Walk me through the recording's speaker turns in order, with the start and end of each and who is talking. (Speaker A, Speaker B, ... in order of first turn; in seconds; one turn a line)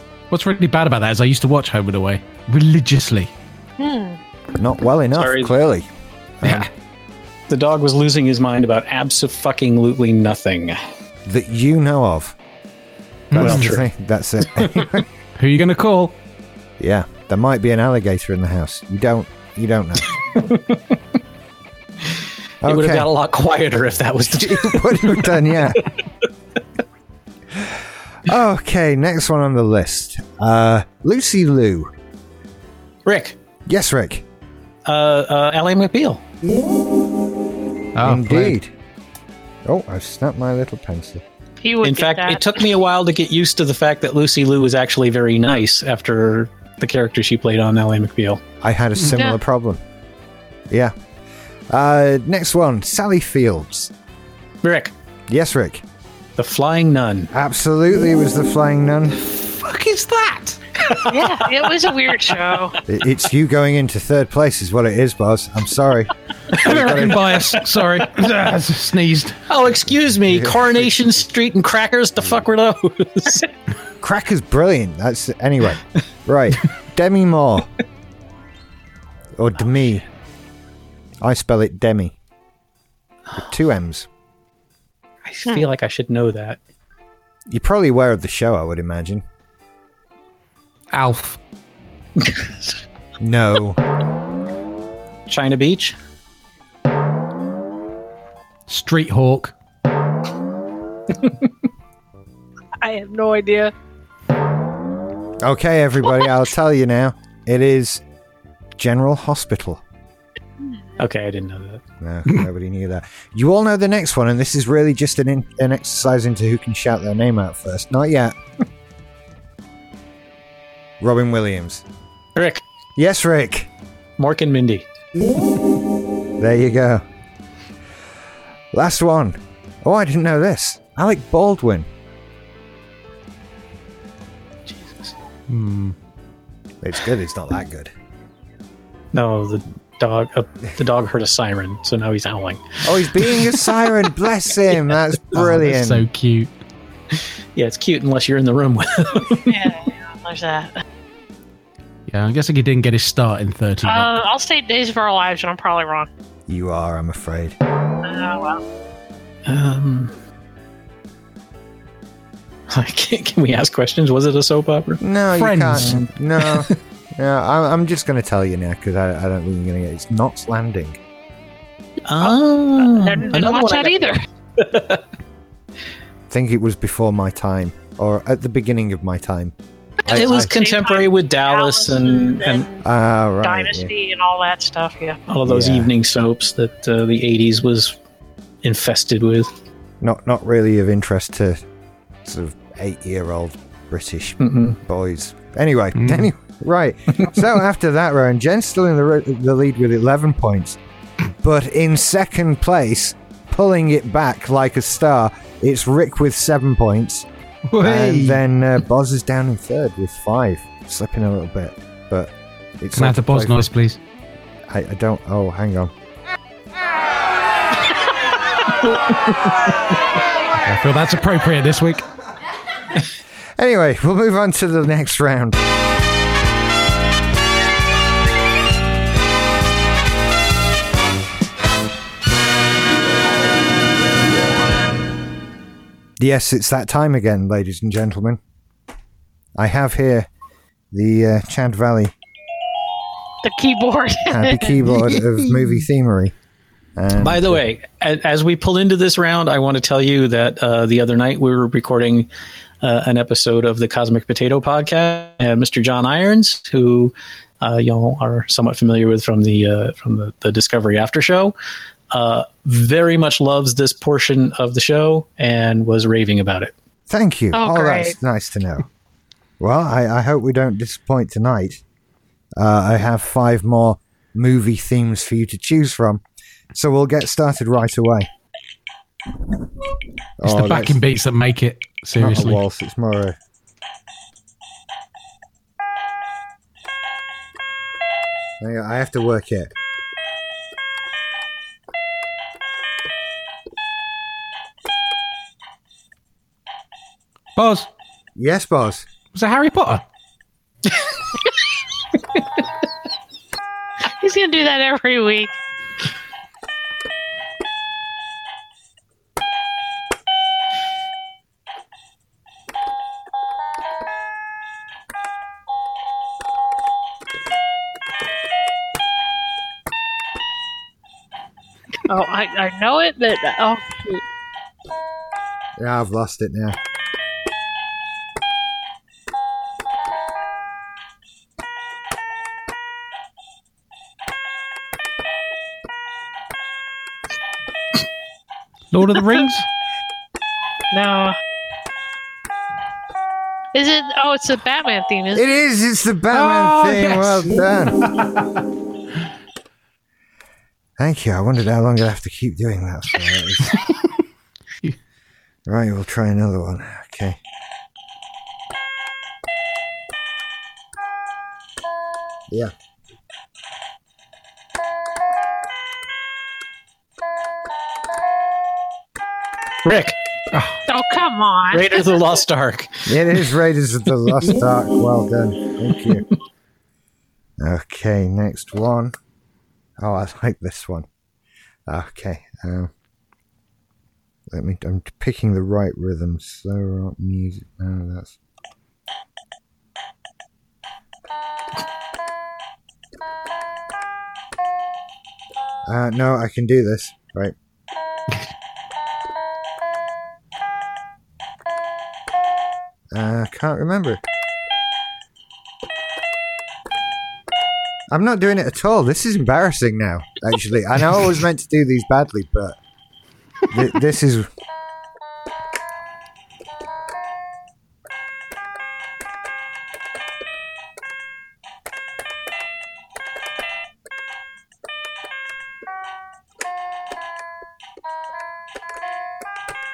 Speaker A: 0.3-3.3
Speaker B: 3.8-4.2
Speaker C: 4.5-5.9
Speaker D: 5.1-5.5
Speaker C: 6.4-6.7
Speaker A: 6.4-6.7
Speaker D: 7.5-10.8
Speaker C: 11.2-12.3
Speaker A: 13.3-13.7
Speaker C: 13.3-15.1
Speaker D: 13.4-13.8
Speaker D: 14.6-14.9
Speaker A: 15.4-16.2
Speaker C: 16.8-20.1
Speaker D: 20.3-21.0
Speaker C: 22.6-23.1
Speaker D: 22.6-25.9
Speaker C: 24.3-25.8
Speaker C: 27.5-31.9
Speaker D: 33.0-33.4
Speaker C: 33.7-34.2
Speaker D: 34.8-36.2
Speaker A: 38.0-38.6
Speaker C: 38.0-38.7
Speaker C: 39.6-41.2
Speaker B: 41.6-42.6
Speaker D: 41.8-48.4
Speaker C: 48.6-49.8
Speaker B: 49.1-49.4
Speaker C: 51.7-53.9
Speaker D: 54.6-54.9
Speaker C: 55.3-55.8
Speaker D: 56.4-57.3
Speaker C: 57.3-59.2
Speaker A: 59.2-61.1
Speaker B: 61.0-62.8
Speaker C: 62.9-67.3
Speaker A: 66.6-69.4
Speaker D: 66.7-67.0
Speaker D: 69.5-73.5
Speaker C: 70.2-70.9
Speaker C: 74.0-77.7
Speaker C: 79.3-80.0
Speaker C: 81.2-82.1
Speaker C: 83.3-84.1
Speaker D: 85.2-86.6
Speaker C: 87.5-89.2
Speaker A: 90.9-91.4
Speaker C: 93.2-93.8
Speaker D: 95.3-96.0
Speaker A: 98.7-99.5
Speaker D: 101.2-101.5
Speaker B: 102.8-103.7
Speaker C: 105.4-108.0
Speaker C: 108.8-109.8
Speaker D: 111.0-111.8
Speaker C: 112.0-118.3
Speaker C: 121.0-121.8
Speaker D: 122.3-122.6
Speaker C: 123.0-123.7
Speaker D: 124.2-124.9
Speaker C: 126.4-127.0
Speaker C: 128.7-131.9
Speaker D: 134.7-135.1
Speaker A: 135.5-135.9
Speaker C: 136.8-137.9
Speaker D: 139.1-143.7
Speaker C: 142.8-146.1
Speaker A: 145.3-146.5
Speaker D: 147.1-149.5
Speaker B: 149.4-150.8
Speaker A: 152.1-154.2
Speaker B: 153.8-156.1
Speaker C: 156.5-157.6
Speaker B: 158.0-158.6
Speaker D: 159.4-160.1
Speaker D: 162.7-165.0
Speaker C: 165.0-171.0
Speaker A: 165.3-166.1
Speaker D: 166.4-166.8
Speaker D: 172.1-175.0
Speaker B: 172.2-174.2
Speaker C: 176.3-180.5
Speaker B: 180.0-182.8
Speaker D: 180.1-182.7
Speaker C: 182.8-183.9
Speaker B: 183.4-185.2
Speaker D: 185.3-188.0
Speaker C: 185.4-185.9
Speaker D: 188.6-189.5
Speaker C: 190.0-191.6
Speaker C: 192.2-200.8
Speaker D: 194.4-194.8
Speaker A: 196.0-196.3
Speaker C: 201.4-207.3
Speaker A: 207.7-208.4
Speaker C: 207.8-213.7
Speaker A: 212.9-214.0
Speaker C: 214.7-215.9
Speaker A: 220.6-222.0
Speaker C: 223.6-225.6
Speaker C: 236.2-238.4
Speaker C: 239.6-240.3
Speaker C: 240.9-242.1
Speaker B: 243.4-244.8
Speaker C: 244.3-246.3
Speaker A: 244.8-245.8
Speaker C: 247.0-247.6
Speaker D: 247.2-252.3
Speaker D: 252.8-261.5
Speaker D: 262.1-266.7
Speaker C: 267.1-268.8
Speaker B: 267.5-268.1
Speaker C: 269.6-271.8
Speaker C: 272.6-276.2
Speaker C: 276.7-278.3
Speaker C: 280.4-281.0
Speaker A: 280.4-282.6
Speaker C: 282.2-283.4
Speaker C: 288.6-289.7
Speaker A: 297.6-297.9
Speaker C: 298.4-299.1
Speaker A: 299.3-300.0
Speaker B: 304.2-305.6
Speaker B: 322.1-324.2
Speaker C: 325.8-326.8
Speaker A: 338.9-339.7
Speaker B: 340.9-341.4
Speaker B: 343.7-345.4
Speaker C: 345.3-348.0
Speaker A: 346.3-348.5
Speaker C: 351.0-353.8
Speaker C: 355.7-357.4
Speaker D: 369.8-370.2
Speaker A: 370.5-370.8
Speaker B: 370.9-372.2
Speaker D: 371.7-373.2
Speaker C: 373.1-376.3
Speaker C: 377.6-379.1
Speaker C: 380.0-381.1
Speaker C: 381.9-382.9
Speaker C: 384.5-388.4
Speaker C: 395.9-397.5
Speaker C: 403.1-404.2
Speaker C: 408.1-412.8
Speaker C: 413.7-414.5